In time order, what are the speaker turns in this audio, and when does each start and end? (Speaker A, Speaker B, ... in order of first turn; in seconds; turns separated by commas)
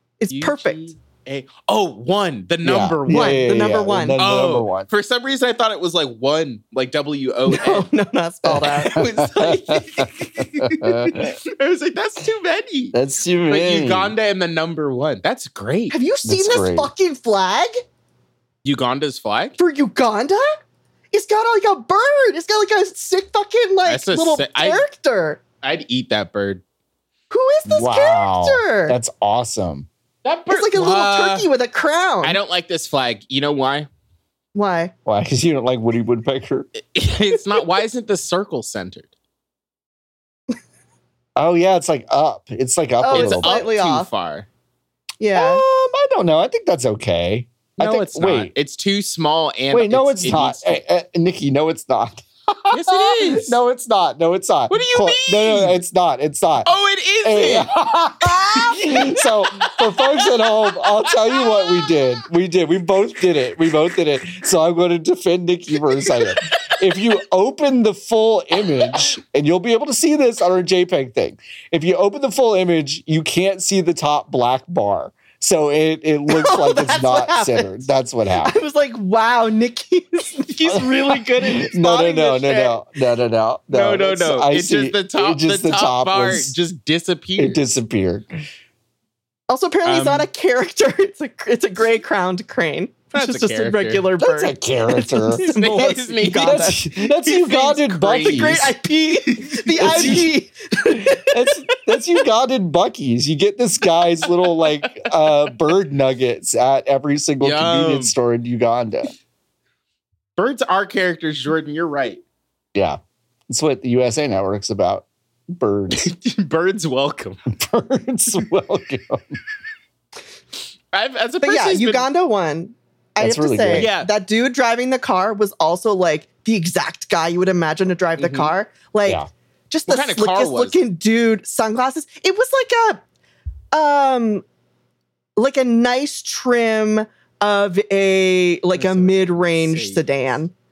Speaker A: 0.2-0.9, Speaker B: 0.3-3.6, Speaker C: 2.6-4.9, Speaker A: 3.1-4.2, Speaker B: 4.2-7.9, Speaker A: 7.5-9.5, Speaker C: 8.5-11.4, Speaker B: 8.8-13.0, Speaker C: 12.9-14.1, Speaker B: 13.5-16.0, Speaker A: 15.9-17.7, Speaker C: 16.2-16.9, Speaker B: 18.6-19.6, Speaker A: 19.6-20.6, Speaker A: 21.1-25.4, Speaker B: 23.9-24.9, Speaker B: 25.6-26.6, Speaker A: 27.3-29.0, Speaker C: 27.7-29.9, Speaker B: 30.2-31.5, Speaker A: 30.5-32.4, Speaker B: 32.2-33.9, Speaker A: 34.5-34.9, Speaker C: 35.1-36.7, Speaker B: 36.8-39.1, Speaker C: 41.4-43.6, Speaker A: 43.0-44.1, Speaker B: 43.1-44.5, Speaker A: 45.2-45.6, Speaker C: 45.4-48.5, Speaker B: 47.8-50.7, Speaker C: 49.7-56.7, Speaker B: 52.7-53.6, Speaker B: 54.7-55.8, Speaker B: 56.6-62.1, Speaker C: 57.2-78.6, Speaker B: 66.1-66.3, Speaker A: 76.3-77.9, Speaker A: 78.4-82.8, Speaker C: 80.7-86.5, Speaker B: 83.7-87.6, Speaker C: 87.4-88.3, Speaker A: 89.5-96.9, Speaker B: 89.8-90.3, Speaker B: 93.1-94.1, Speaker C: 94.2-98.7, Speaker B: 95.4-98.7, Speaker A: 98.2-101.5, Speaker B: 99.6-100.2, Speaker C: 99.8-100.3, Speaker C: 100.9-109.1, Speaker B: 104.2-105.1, Speaker B: 107.4-108.1, Speaker B: 110.4-112.2, Speaker C: 112.7-116.1, Speaker B: 115.9-117.4, Speaker C: 117.5-119.4, Speaker B: 120.9-122.1, Speaker A: 121.4-133.0, Speaker C: 123.2-123.9, Speaker B: 123.7-124.1, Speaker B: 128.2-128.5, Speaker B: 129.9-130.8, Speaker A: 133.7-134.4, Speaker A: 135.4-140.5, Speaker B: 138.8-140.0